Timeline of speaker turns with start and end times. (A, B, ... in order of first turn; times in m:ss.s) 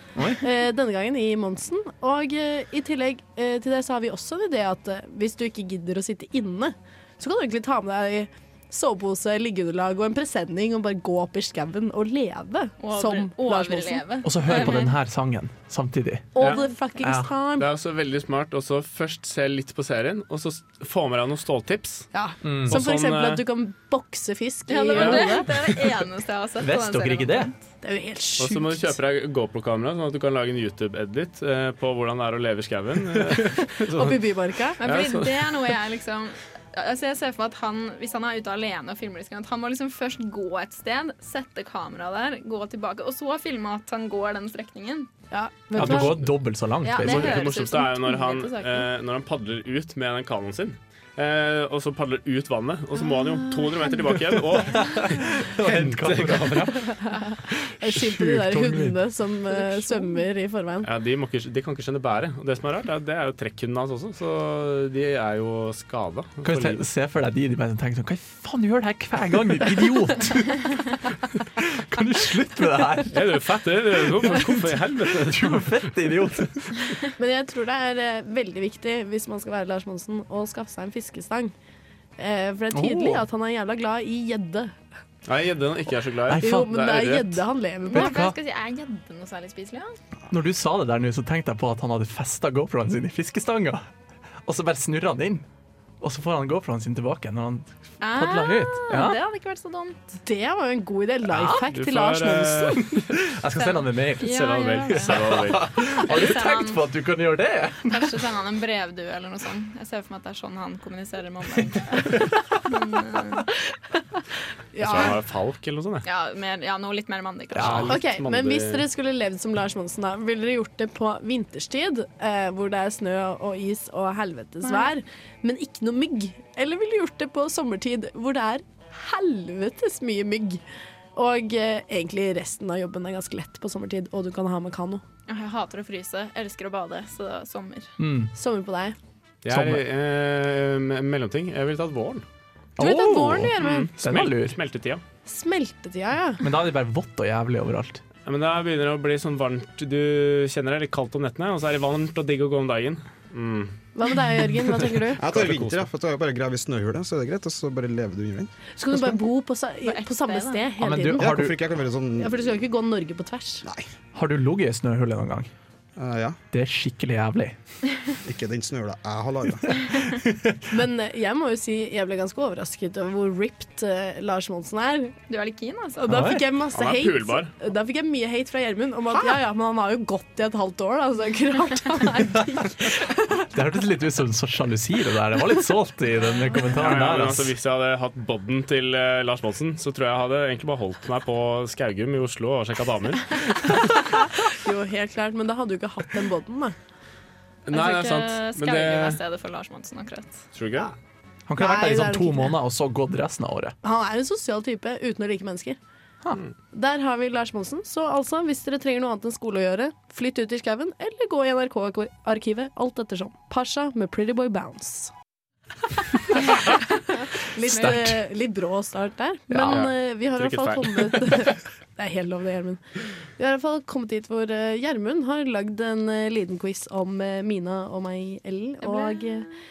0:00.2-0:00.4 A
0:00.4-0:14.0 B
0:12.8-0:14.9 C
0:14.2-0:16.3 A
0:16.4-0:17.7 B
0:17.0-0:17.3 A
0:17.6-0:22.1 D
0:22.1-0:25.5 B
0:22.4-0:22.8 A
0:22.6-0:23.4 D
0:24.7-0:27.6 C
0:25.0-0:25.8 D
0:26.6-0:27.5 A
0:27.8-0:28.9 B
0:28.4-0:34.2 D
0:33.8-0:34.8 B
0:34.8-0:45.1 C
0:34.8-0:35.7 D
0:45.3-0:46.2 B
0:45.8-0:47.5 A
0:45.8-0:46.1 C
0:46.8-0:48.9 C
0:47.0-0:56.8 D
0:53.2-0:53.9 C
0:54.6-0:56.8 A
0:56.9-1:00.9 B
0:57.8-0:59.0 A
1:00.8-1:06.8 D
1:06.4-1:10.7 A
1:11.4-1:13.4 A
1:13.1-1:15.8 D
1:14.0-1:16.7 A
1:17.2-1:21.5 B
1:22.2-1:24.8 B
1:22.7-1:23.2 A
1:25.2-1:27.4 D
1:26.3-1:26.7 A
1:26.4-1:28.2 B
1:27.9-1:30.0 C
1:27.9-1:28.3 A
1:30.3-1:33.9 A
1:34.4-1:35.5 A
1:36.0-1:39.2 A
1:38.0-1:40.2 C
1:40.2-1:42.9 B
1:41.3-1:41.6 A
1:41.7-1:43.0 D
1:43.0-1:48.2 A
1:43.6-1:45.3 C
1:44.2-1:45.7 D
1:46.0-1:46.8 C
1:47.9-1:53.4 C
1:54.7-1:55.1 B
1:54.8-1:56.0 D
1:56.0-1:57.9 C
1:57.5-1:58.0 A
1:57.5-1:58.8 D
1:57.9-2:10.6 B
2:04.6-2:04.9 C
2:11.1-2:15.0 B
2:15.3-2:17.9 C
2:18.0-2:18.3 A
2:18.3-2:19.0 B
2:19.4-2:22.2 D
2:19.5-2:19.8 A
2:22.8-2:23.9 B
2:22.8-2:24.6 A
2:23.6-2:25.0 D
2:25.2-2:26.4 B
2:26.4-2:28.0 A
2:28.2-2:33.8 D
2:33.9-2:35.2 B
2:35.2-2:38.5 E
2:35.2-2:35.9 D
2:38.8-2:41.5 B
2:39.8-2:40.7 C
2:40.8-2:41.6 A
2:41.2-2:42.4 E
2:42.2-2:43.6 B
2:43.6-2:43.9 E
2:44.1-2:45.5 A
2:46.0-2:46.4 E
2:46.5-2:47.6 A
2:48.2-2:50.1 E
2:50.7-2:55.2 B
2:55.3-2:56.1 C
2:56.0-3:03.5 B
2:56.1-2:56.4 A
2:56.7-2:57.5 D
3:03.5-3:07.5 A
3:06.7-3:13.7 D
3:14.3-3:16.7 B
3:17.6-3:19.2 D
3:17.7-3:20.4 C
3:20.5-3:20.9 D
3:21.5-3:23.8 A
3:21.6-3:22.6 B
3:23.8-3:25.8 B
3:26.7-3:35.1 B
3:36.4-3:36.8 B
3:37.4-3:42.8 B
3:37.6-3:38.2 A
3:39.5-3:39.9 A
3:39.7-3:41.5 D
3:43.4-3:49.5 B
3:48.8-3:49.4 C